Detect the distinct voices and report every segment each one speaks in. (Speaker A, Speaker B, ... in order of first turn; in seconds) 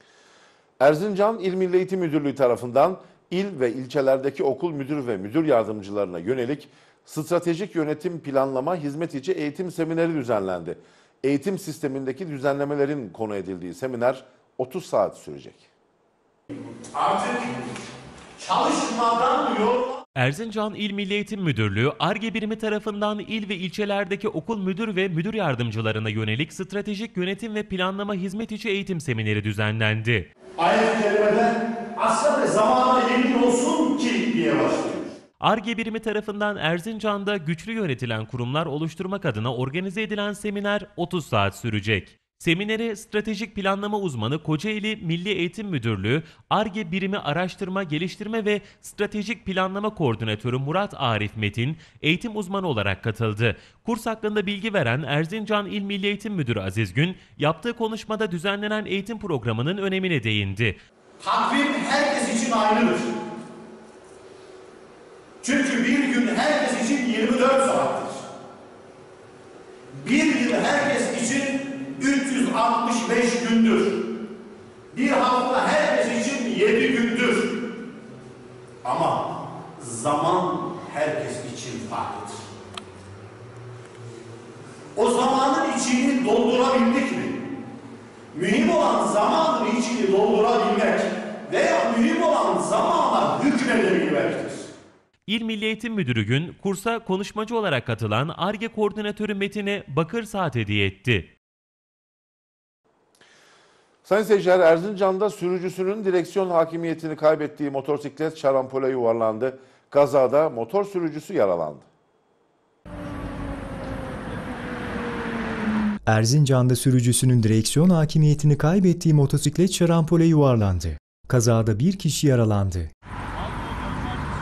Speaker A: 0.8-15.7, 104.0-111.9
Speaker B: 16.9-17.7, 18.4-20.0, 30.6-35.1, 61.2-63.1, 65.4-68.2, 70.0-74.2, 74.9-77.8, 78.8-82.4, 85.0-87.5, 88.3-94.7
Speaker C: 20.2-30.3, 35.4-60.8, 95.3-101.3
Speaker D: 116.1-122.9